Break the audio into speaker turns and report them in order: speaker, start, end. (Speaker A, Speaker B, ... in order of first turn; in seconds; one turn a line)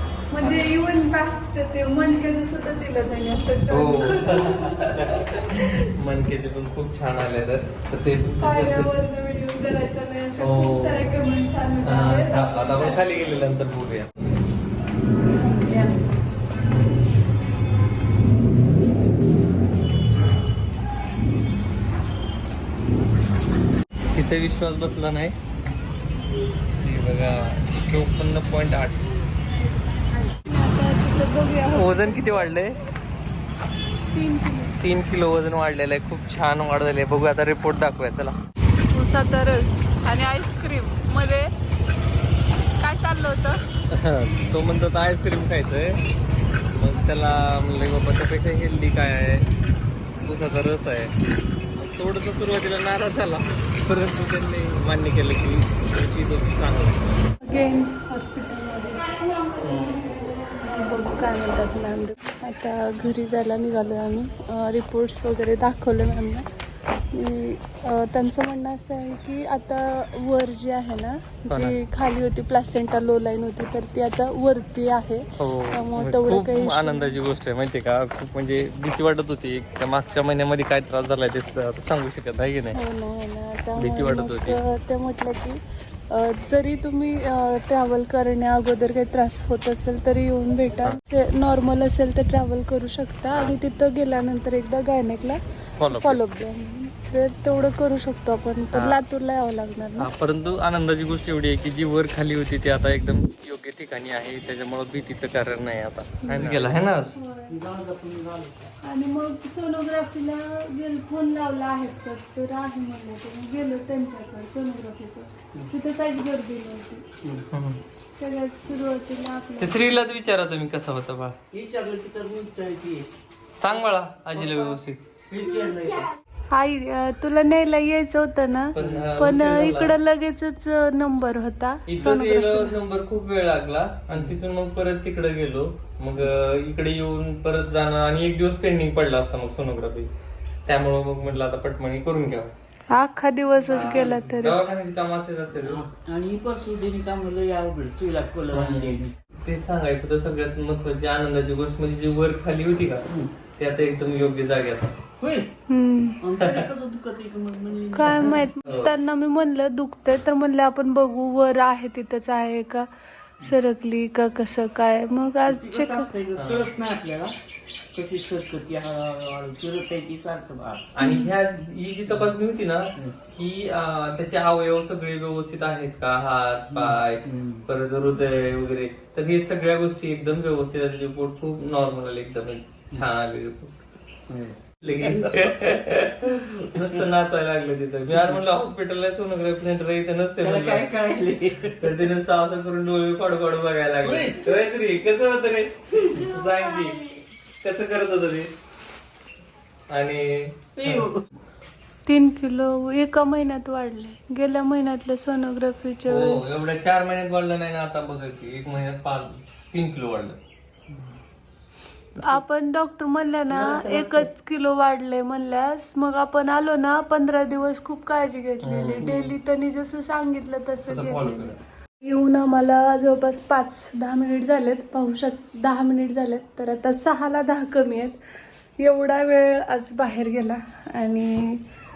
Speaker A: 0.3-5.8
Speaker B: 0.4-0.7
Speaker B: 3.7-8.9
Speaker A: 8.4-13.0
Speaker B: 10.4-11.1
Speaker B: 11.8-14.1
Speaker A: 15.6-15.9
Speaker B: 16.7-17.0
Speaker B: 24.1-25.4
Speaker B: 26.8-29.2
Speaker A: 30.4-32.5
Speaker B: 31.7-32.7
Speaker A: 34.1-34.8
Speaker B: 34.8-38.4
Speaker A: 38.9-41.5
Speaker A: 42.8-43.6
Speaker B: 43.9-46.0
Speaker B: 46.7-49.5
Speaker B: 50.2-51.1
Speaker B: 51.8-57.2
Speaker A: 57.4-59.5
Speaker B: 59.6-60.0
Speaker A: 60.6-66.5
Speaker A: 67.1-77.2
Speaker B: 71.5-71.8
Speaker B: 75.4-82.8
Speaker A: 82.7-95.4
Speaker B: 83.8-84.6
Speaker B: 93.3-93.6
Speaker B: 95.8-96.2
Speaker A: 95.9-100.1
Speaker B: 98.7-99.0
Speaker B: 100.0-107.2
Speaker C: 106.3-106.7
Speaker A: 107.1-107.6
Speaker C: 107.5-108.6
Speaker A: 108.8-117.1
Speaker B: 117.5-117.8
Speaker A: 118.2-120.1
Speaker B: 119.6-121.4
Speaker C: 121.5-123.1
Speaker B: 123.6-125.0
Speaker C: 124.3-126.1
Speaker A: 126.5-132.8
Speaker B: 128.7-130.0
Speaker C: 128.8-129.1
Speaker B: 131.9-140.1
Speaker B: 140.7-142.5
Speaker A: 142.9-144.6
Speaker B: 143.7-145.8
Speaker C: 145.6-149.1
Speaker B: 148.5-153.0
Speaker B: 153.6-154.9
Speaker C: 155.2-155.5
Speaker A: 155.7-156.2
Speaker C: 156.2-158.4
Speaker B: 156.4-156.7
Speaker A: 157.9-162.9
Speaker B: 158.1-158.9
Speaker A: 163.4-166.1
Speaker C: 165.5-167.3
Speaker B: 166.3-166.7
Speaker C: 167.9-170.9
Speaker B: 170.9-183.9
Speaker A: 171.0-171.3
Speaker C: 176.7-177.6
Speaker C: 184.3-185.2
Speaker B: 184.8-190.9
Speaker C: 186.6-187.0
Speaker C: 188.1-188.4
Speaker C: 190.4-192.0
Speaker B: 191.8-197.0
Speaker C: 194.0-194.6
Speaker C: 196.1-197.2
Speaker B: 197.6-198.5
Speaker B: 199.9-201.1
Speaker C: 200.8-201.3
Speaker A: 202.1-206.4
Speaker B: 206.1-210.4
Speaker A: 212.2-228.2
Speaker C: 213.5-214.3
Speaker B: 218.6-219.1
Speaker C: 219.0-219.3
Speaker B: 220.8-221.6
Speaker A: 228.8-231.6